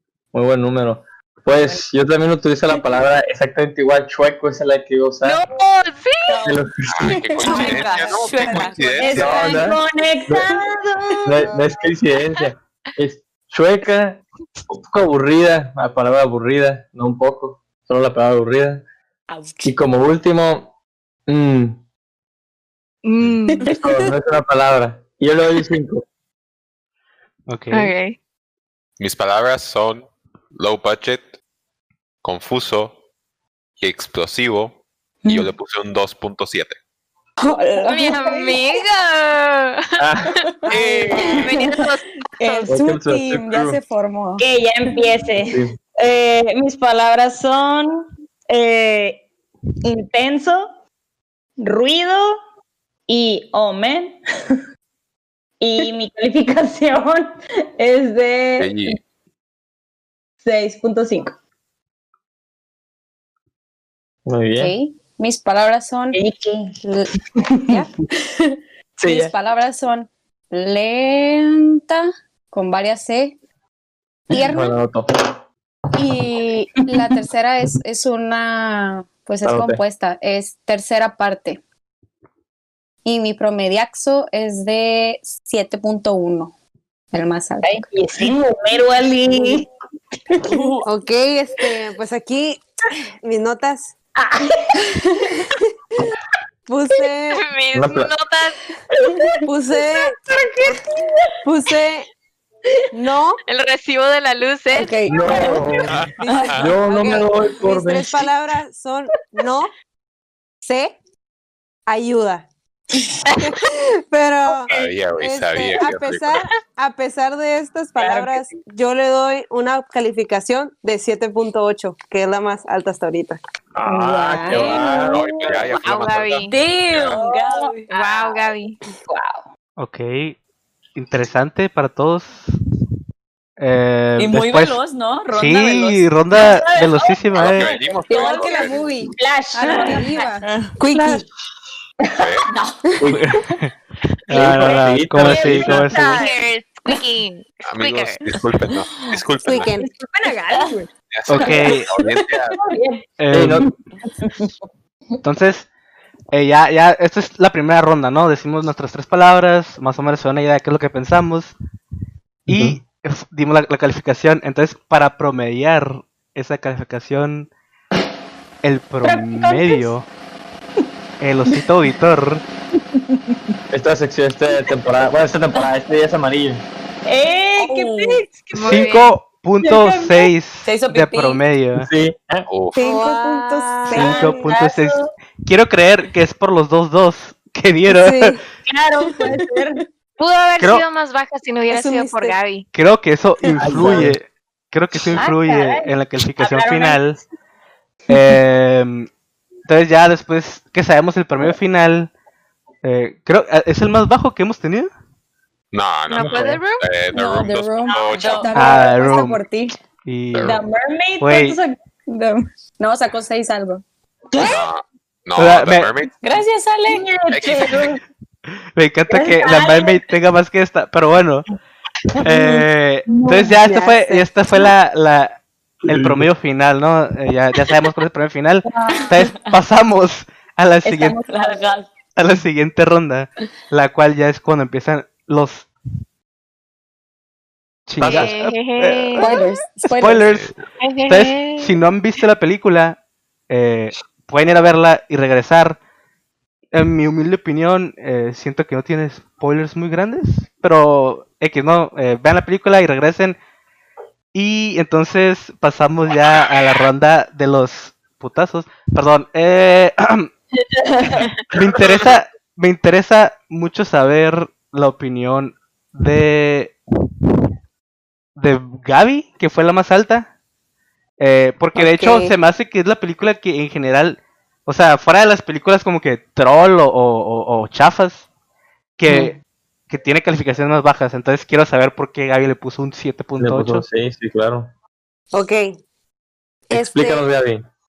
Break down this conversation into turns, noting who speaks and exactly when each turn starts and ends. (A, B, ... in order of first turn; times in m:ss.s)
0:00.3-0:05.5 A
0:05.2-0:06.4 B
0:06.3-0:06.6 C
0:06.4-0:07.2 A
0:06.9-0:09.7 D
0:07.4-0:11.6 E
0:07.4-0:09.6 C
0:09.1-0:10.6 A
0:11.2-0:18.8 A
0:19.3-0:19.7 C
0:19.6-0:20.7 A
0:21.3-0:21.8 A
0:23.0-0:23.7 B
0:23.7-0:26.0 A
0:27.5-0:27.9 F
0:27.7-0:28.2 B
0:29.0-0:31.3 D
0:32.2-0:33.0 D
0:33.8-0:36.8 D
0:37.4-0:38.8 E
0:37.9-0:40.1 B
0:40.0-0:40.8 A
0:40.6-0:42.7 B
0:40.7-0:42.7 E
0:42.7-0:44.4 G
0:42.7-0:43.8 A
0:44.4-0:49.3 E
0:45.5-0:45.8 A
0:49.8-0:50.7 E
0:51.6-0:52.4 E
0:53.1-0:54.2 E
0:55.6-0:59.0 E
0:58.6-0:59.0 D
1:00.4-1:01.3 E
1:04.3-1:04.8 A
1:04.6-1:06.2 G
1:06.1-1:06.8 E
1:06.8-1:07.9 G
1:07.4-1:07.8 E
1:09.0-1:09.3 A
1:09.0-1:13.3 G
1:14.3-1:14.8 G
1:14.3-1:15.3 A
1:16.0-1:21.6 G
1:16.9-1:17.1 E
1:19.4-1:19.8 A
1:23.0-1:26.5 G
1:27.1-1:27.9 G
1:27.6-1:29.7 E
1:30.3-1:30.7 E
1:30.5-1:30.8 C
1:30.8-1:32.7 H
1:33.2-1:34.0 H
1:34.2-1:35.0 E
1:36.7-1:37.4 H
1:37.3-1:38.5 B
1:37.7-1:38.1 A
1:39.1-1:39.4 E
1:39.5-1:40.2 H
1:40.3-1:40.8 E
1:41.4-1:42.1 H
1:42.9-1:43.4 H
1:43.5-1:45.0 B
1:44.7-1:45.5 G
1:45.1-1:48.3 A
1:45.2-1:45.6 E
1:45.9-1:46.7 D
1:46.2-1:49.7 H
1:46.3-1:46.5 C
1:50.6-1:51.0 H
1:51.9-1:52.5 H
1:53.4-2:03.4 H
1:54.7-1:56.5 D
1:58.0-1:58.3 C
2:03.8-2:05.3 A
2:03.8-2:05.9 E
2:05.1-2:07.2 D
2:05.7-2:06.6 B
2:06.4-2:07.9 C
2:07.1-2:08.5 E
2:07.9-2:08.8 B
2:09.0-2:09.4 E
2:09.8-2:10.4 F
2:11.0-2:12.5 F
2:13.6-2:14.8 F
2:14.2-2:16.1 C
2:15.3-2:17.7 F
2:16.3-2:21.2 E
2:17.4-2:19.0 D
2:18.1-2:18.9 C
2:19.6-2:20.3 G
2:19.8-2:20.8 C
2:20.8-2:21.2 H
2:22.2-2:22.5 D
2:22.5-2:22.8 C
2:23.0-2:23.4 A
2:23.2-2:23.7 F
2:24.3-2:26.2 F
2:24.3-2:25.9 A
2:24.4-2:26.4 E
2:25.8-2:28.3 B
2:27.7-2:29.8 D
2:28.7-2:29.2 C
2:29.4-2:29.9 H
2:29.8-2:33.0 E
2:31.1-2:32.6 D
2:31.3-2:31.9 F
2:33.2-2:33.7 F
2:33.3-2:33.7 A
2:34.2-2:34.5 E
2:35.2-2:35.7 F
2:36.3-2:41.5 F
2:42.5-2:47.5 F
2:42.5-2:42.8 A
2:48.6-2:50.1 F
2:49.0-2:49.9 E
2:51.2-2:52.4 F
2:53.7-2:56.6 A
2:57.1-2:58.9 E
2:57.6-2:58.2 C
2:58.5-2:59.2 B
2:58.6-3:01.9 F
2:59.6-3:00.3 E
3:00.6-3:01.4 C
3:01.8-3:02.5 A
3:02.5-3:02.8 D
3:02.8-3:04.4 H
3:03.0-3:05.1 E
3:03.9-3:08.4 F
3:07.9-3:08.4 H
3:08.7-3:09.8 E
3:10.2-3:12.7 B
3:10.6-3:10.8 F
3:11.7-3:12.4 H
3:12.7-3:17.2 F
3:13.6-3:14.2 A
3:15.2-3:17.0 E
3:18.1-3:19.1 F
3:19.7-3:22.1 F
3:22.8-3:24.9 F
3:25.7-3:28.5 D
3:26.1-3:26.8 B
3:27.2-3:29.7 G
3:28.1-3:28.7 C
3:28.5-3:29.4 F
3:30.0-3:30.6 F
3:30.3-3:30.6 D
3:30.4-3:32.4 E
3:31.2-3:31.6 F
3:32.8-3:33.8 G
3:34.4-3:36.2 D
3:35.4-3:35.9 F
3:36.2-3:37.7 C
3:36.8-3:38.0 E
3:37.3-3:38.0 D
3:38.8-3:41.5 F
3:39.1-3:40.1 E
3:42.2-3:51.2 F
3:43.2-3:43.5 E
3:43.5-3:44.3 H
3:45.9-3:46.3 A
3:50.8-3:51.7 E
3:51.3-3:51.9 C
3:52.2-3:55.7 F
3:57.9-3:59.3 F
3:58.0-3:58.3 A
3:58.0-3:59.4 B
3:59.2-4:00.3 G
3:59.9-4:00.6 F
4:00.8-4:01.8 B
4:01.1-4:05.8 F
4:06.7-4:13.4 F
4:14.3-4:20.3 F
4:21.5-4:26.8 F
4:28.4-4:30.3 F
4:31.2-4:38.2 F
4:31.8-4:32.3 H
4:39.0-4:39.4 F
4:39.9-4:43.8 F
4:43.4-4:44.7 A
4:45.3-4:45.8 H
4:46.7-4:47.3 H
4:46.7-4:47.6 A